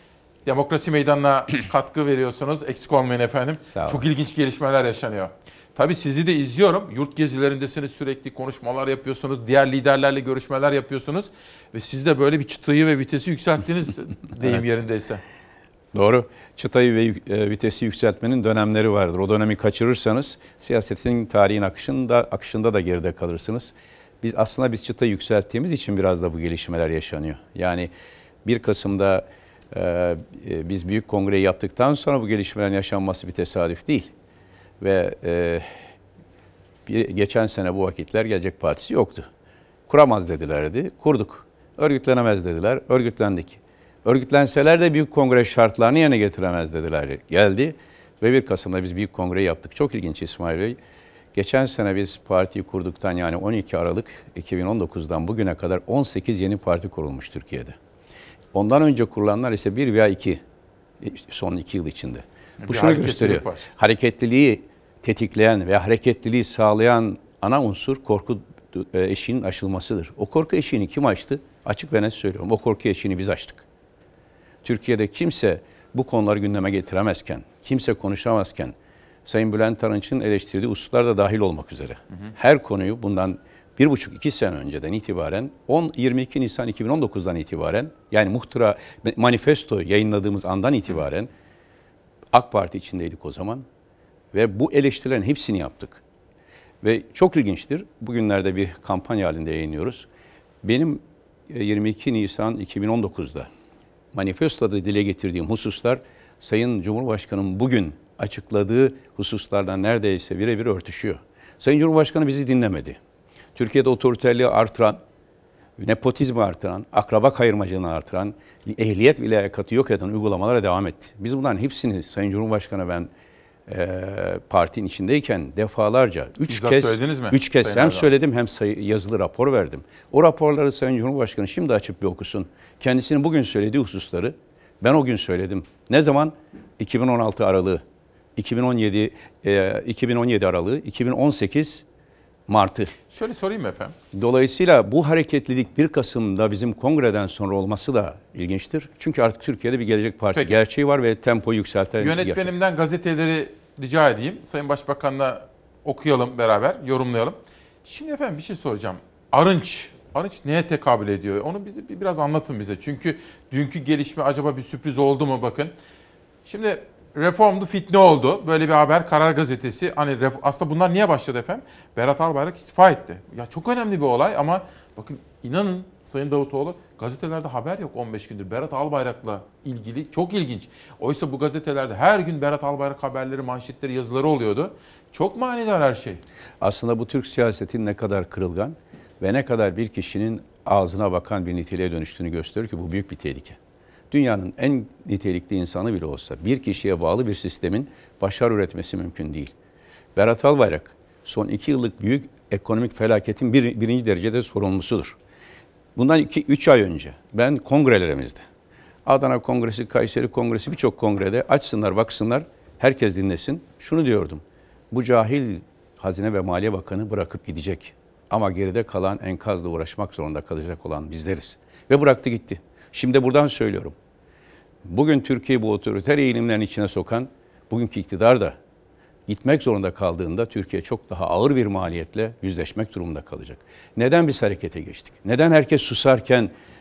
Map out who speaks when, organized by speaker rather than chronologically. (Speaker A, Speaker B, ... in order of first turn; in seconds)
Speaker A: 0.5-15.2, 62.6-63.7, 126.5-128.1, 143.1-143.9, 152.0-165.7, 166.5-186.2
Speaker B: 3.7-4.1, 15.9-27.9, 28.4-34.1, 34.8-35.7, 36.9-39.3, 39.9-50.8, 51.4-57.8, 58.5-60.4, 61.0-73.6, 74.6-78.8, 79.3-91.3, 92.3-93.7, 94.3-96.0, 96.8-100.1, 100.6-103.5, 104.1-113.0, 113.6-115.0, 115.8-123.1, 123.7-137.8, 138.4-141.8, 142.5-142.9, 144.1-152.6, 186.6-193.6, 194.1-199.5, 200.2-205.2, 206.0-208.4, 209.1-223.9, 224.8-228.6, 229.3-236.5